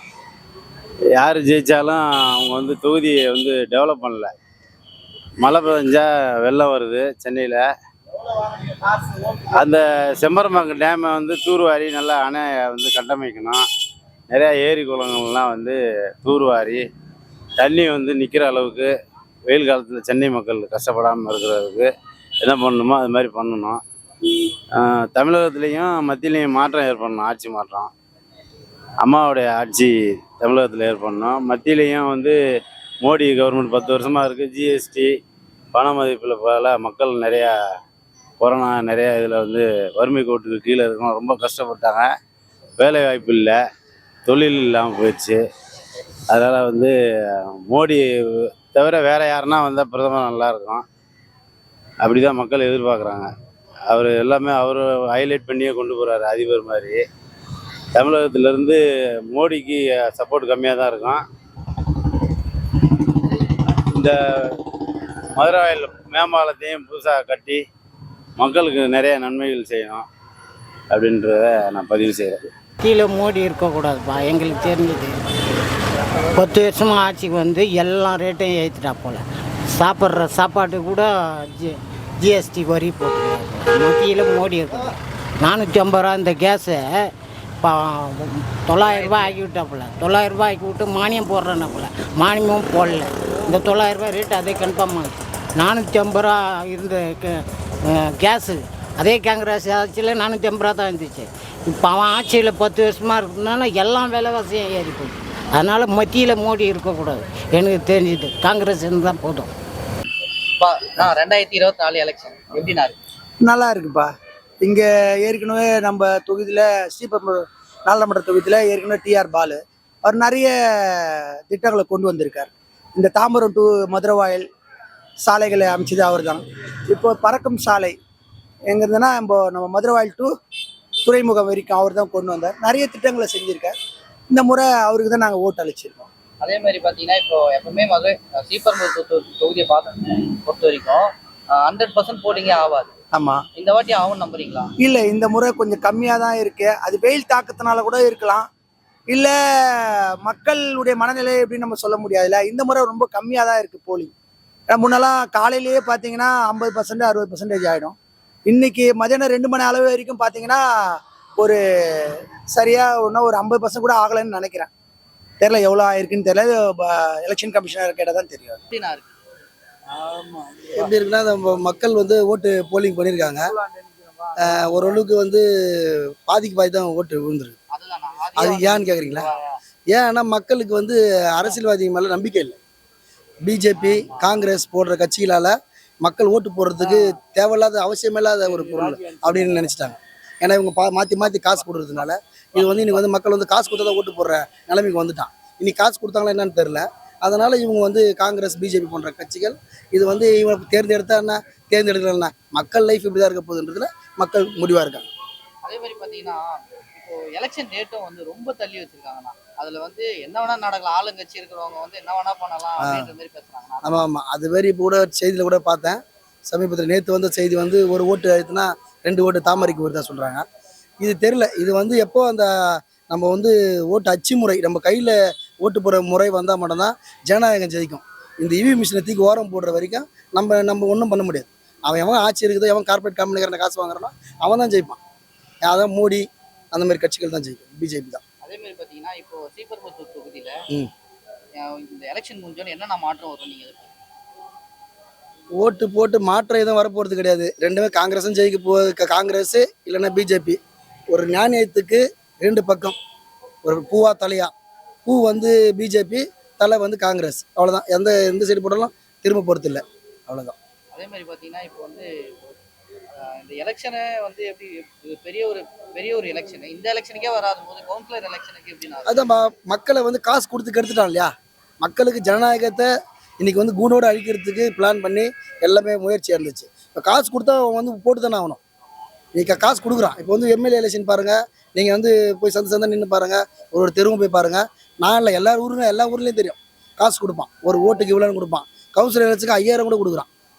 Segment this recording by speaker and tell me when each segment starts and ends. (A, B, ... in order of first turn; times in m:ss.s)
0:01.2-0:04.3 A
0:05.4-0:07.6 A
0:08.4-0:13.6 A
0:14.3-0:16.8 A
0:17.6-0:18.9 A
0:19.4-0:21.9 A
0:22.4-0:23.8 A
0:24.3-0:27.9 A
0:29.0-0:32.4 A
0:33.0-0:35.1 A
0:35.7-0:37.5 A
0:38.4-0:42.1 A
0:42.8-0:43.6 A
0:44.2-0:45.4 A
0:46.3-0:46.9 A
0:47.4-0:50.8 A
0:52.0-0:53.3 A
0:53.9-0:57.0 A
0:57.9-1:01.2 A
1:03.9-1:04.6 A
1:05.3-1:07.6 A
1:08.4-1:10.0 A
1:10.9-1:12.5 A
1:12.8-1:15.2 B
1:16.2-1:49.5 B
1:28.8-1:29.3 C
1:50.6-1:53.0 C
1:53.4-2:04.4 D
2:05.2-2:08.0 D
2:08.7-2:10.3 D
2:11.0-2:13.7 D
2:14.3-2:16.1 D
2:16.4-2:22.9 C
2:23.1-2:23.4 D
2:23.6-2:24.7 C
2:24.8-2:28.5 D
2:29.1-2:34.1 D
2:34.7-2:40.6 D
2:41.4-2:44.7 D
2:45.4-2:48.6 D
2:48.7-2:49.1 C
2:49.9-2:50.8 D
2:50.7-2:53.5 E
2:53.6-2:54.8 D
2:54.4-2:57.5 E
2:57.7-2:59.4 C
2:58.4-2:59.3 E
2:59.9-3:02.6 E
3:03.4-3:05.5 E
3:06.0-3:25.1 E
3:25.6-3:33.9 C
3:32.8-3:33.1 E
3:33.8-3:36.0 E
3:36.5-3:40.4 E
3:41.0-3:42.5 E
3:43.0-3:55.0 E
3:55.6-3:58.2 E
3:58.4-4:00.5 C
4:01.6-4:03.9 C
4:05.6-4:10.6 E
4:11.1-4:13.0 E
4:13.6-4:14.5 E
4:15.0-4:20.5 E
4:20.9-4:22.1 C
4:23.1-4:29.2 C
4:29.0-4:31.3 E
4:31.8-4:32.9 E
4:33.4-4:38.6 E
4:39.3-4:50.3 E